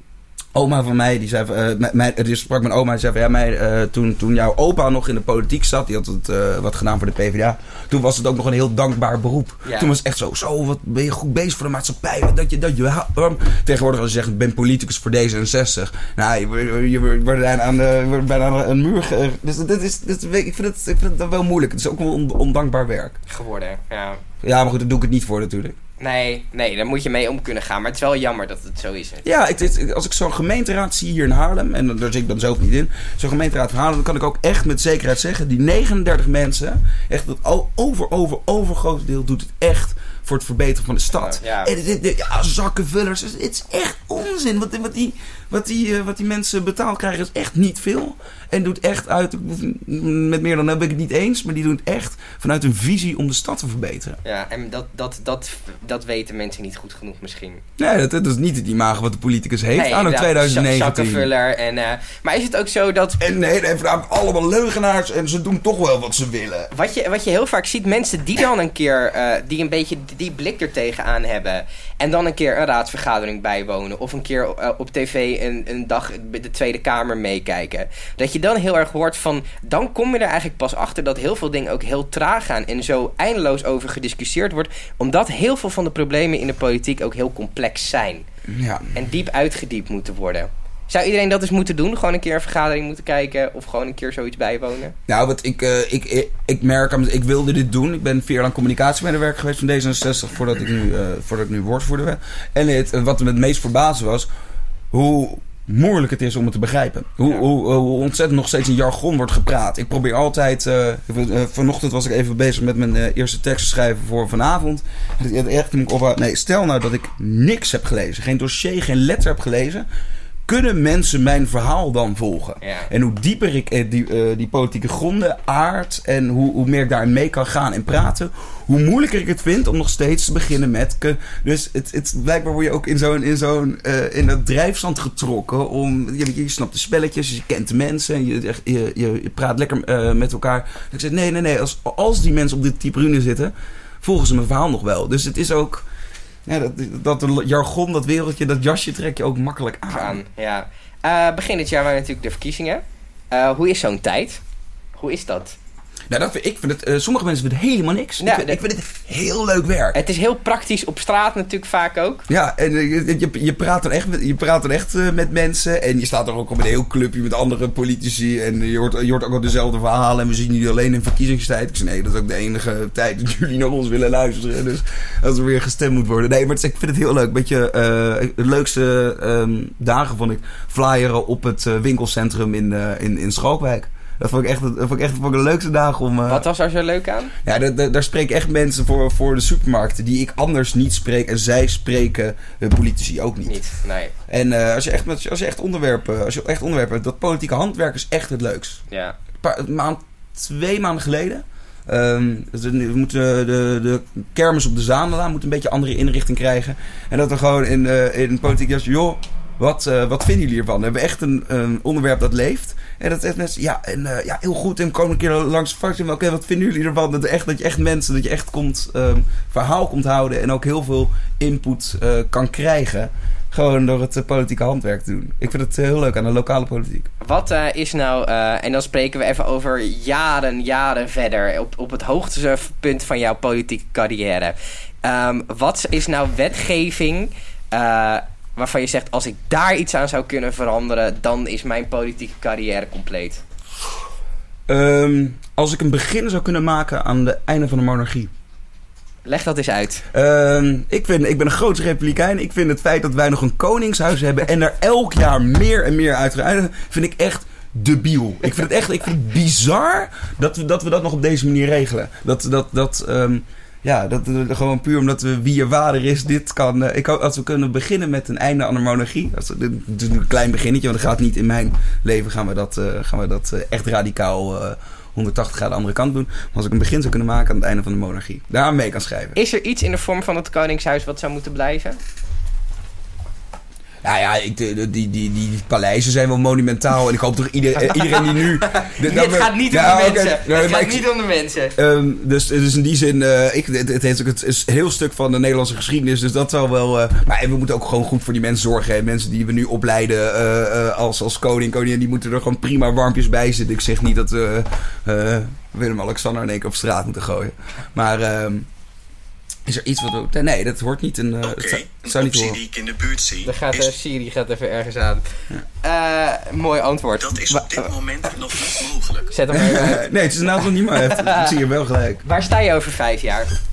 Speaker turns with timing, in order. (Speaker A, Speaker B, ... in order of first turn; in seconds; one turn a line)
Speaker A: 0.5-23.2
Speaker B: 9.6-9.9
Speaker B: 23.3-24.2
Speaker A: 24.4-25.8
Speaker B: 26.0-29.3
Speaker A: 29.2-54.2
Speaker B: 41.2-41.7
Speaker B: 54.2-57.6
Speaker A: 57.8-61.3
Speaker B: 59.7-63.2
Speaker A: 63.2-66.7
Speaker B: 66.7-88.2
Speaker A: 88.5-88.9
Speaker B: 88.9-95.0
Speaker A: 95.1-104.3
Speaker A: 104.9-119.9
Speaker A: 120.5-145.9
Speaker B: 122.6-122.9
Speaker A: 146.5-150.2
Speaker B: 149.9-154.4
Speaker B: 155.0-155.6
Speaker A: 156.1-160.0
Speaker B: 158.2-158.6
Speaker B: 159.9-162.2
Speaker A: 162.3-186.5
Speaker B: 186.3-187.3
Speaker A: 187.4-193.6
Speaker B: 193.5-194.1
Speaker A: 194.3-198.8
Speaker B: 198.9-199.2
Speaker A: 199.4-227.1
Speaker B: 227.2-243.4
Speaker A: 244.7-248.3
Speaker B: 249.2-250.1
Speaker A: 250.1-279.4
Speaker B: 279.4-282.0
Speaker A: 284.0-291.1
Speaker B: 287.8-291.8
Speaker A: 291.8-308.7
Speaker A: 309.7-312.6
Speaker C: 311.4-313.9
Speaker B: 313.4-315.3
Speaker B: 315.8-317.7
Speaker C: 317.2-319.3
Speaker B: 319.3-320.1
Speaker A: 319.5-322.2
Speaker B: 320.9-321.5
Speaker B: 322.2-323.5